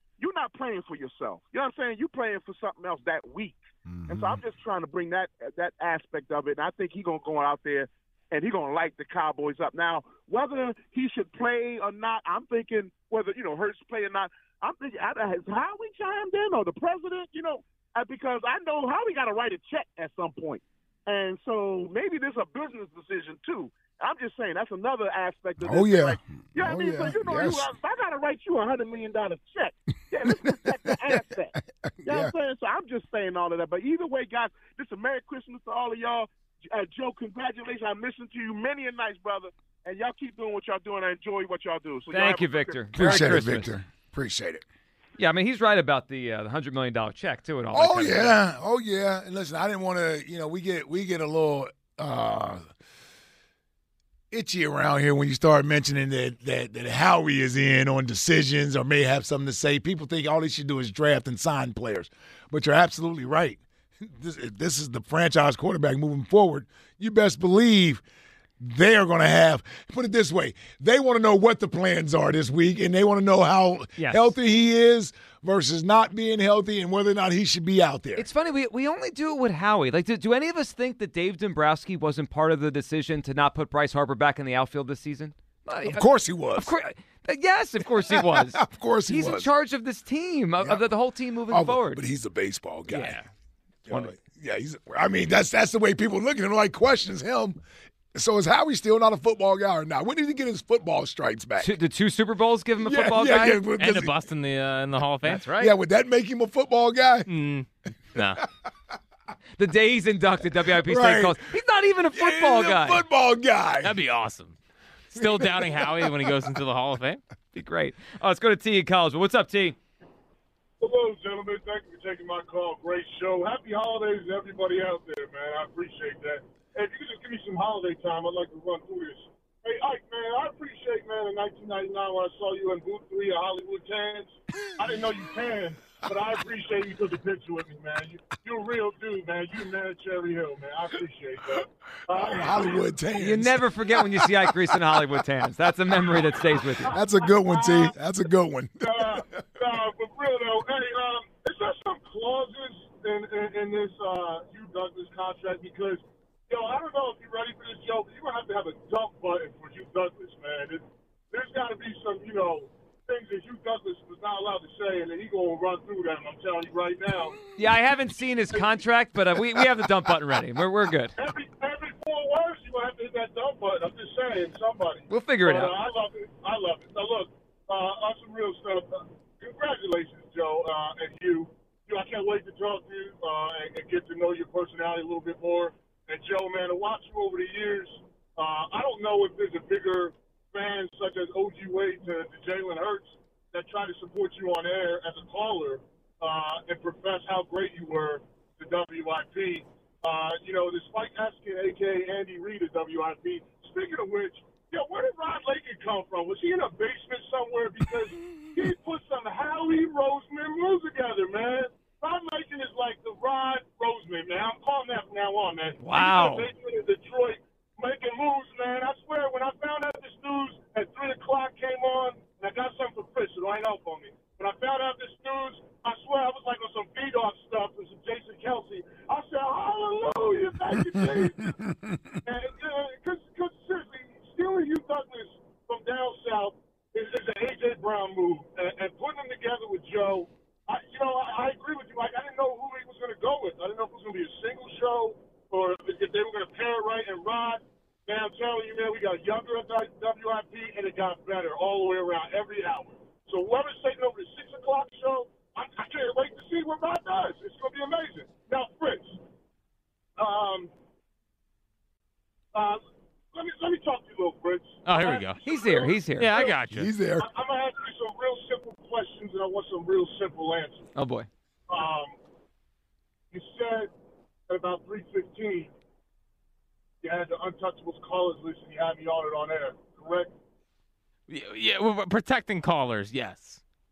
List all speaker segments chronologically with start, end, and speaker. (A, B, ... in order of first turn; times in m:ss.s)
0:00.2-0:31.5 A
0:03.9-0:04.4 B
0:25.6-0:27.7 B
0:30.3-0:31.2 B
0:31.8-0:32.3 B
0:32.0-0:42.8 A
0:42.1-0:43.7 C
0:42.9-0:44.6 B
0:45.2-0:48.4 C
0:47.7-0:52.6 B
0:54.3-1:08.0 B
1:08.6-1:18.2 B
1:14.0-1:14.3 C
1:18.2-1:32.0 C
1:25.8-1:26.7 B
1:28.1-1:29.5 B
1:30.6-1:30.8 B
1:31.5-1:33.2 B
1:32.9-1:33.3 C
1:33.8-1:37.6 B
1:38.1-1:41.7 B
1:41.6-1:43.6 C
1:42.8-1:44.1 B
1:43.8-1:45.4 D
1:45.2-1:45.7 C
1:45.6-1:47.3 B
1:47.3-1:48.4 D
1:49.6-1:53.0 C
1:50.8-1:51.4 B
1:52.1-1:54.0 B
1:53.8-1:54.6 D
1:55.1-1:57.2 D
1:55.2-1:55.8 B
1:57.5-1:59.8 C
2:00.8-2:22.8 E
2:22.1-2:23.6 B
2:23.2-2:27.0 C
2:26.9-2:29.2 B
2:27.2-2:27.9 E
2:28.8-2:47.4 E
2:47.6-2:51.1 C
2:51.2-3:51.5 E
2:55.1-2:55.7 C
3:35.8-3:36.5 C
3:50.9-3:52.1 B
3:52.2-4:19.2 E
4:20.2-4:20.7 E
4:22.5-4:22.8 E
4:23.3-4:26.5 E
4:24.8-4:25.4 D
4:25.4-4:26.4 C
4:26.1-4:26.9 D
4:26.7-4:27.3 B
4:27.2-4:30.9 E
4:31.0-4:31.3 C
4:31.7-4:32.2 E
4:33.3-4:33.9 E
4:34.5-4:35.7 E
4:37.0-4:40.3 E
4:41.3-4:43.6 D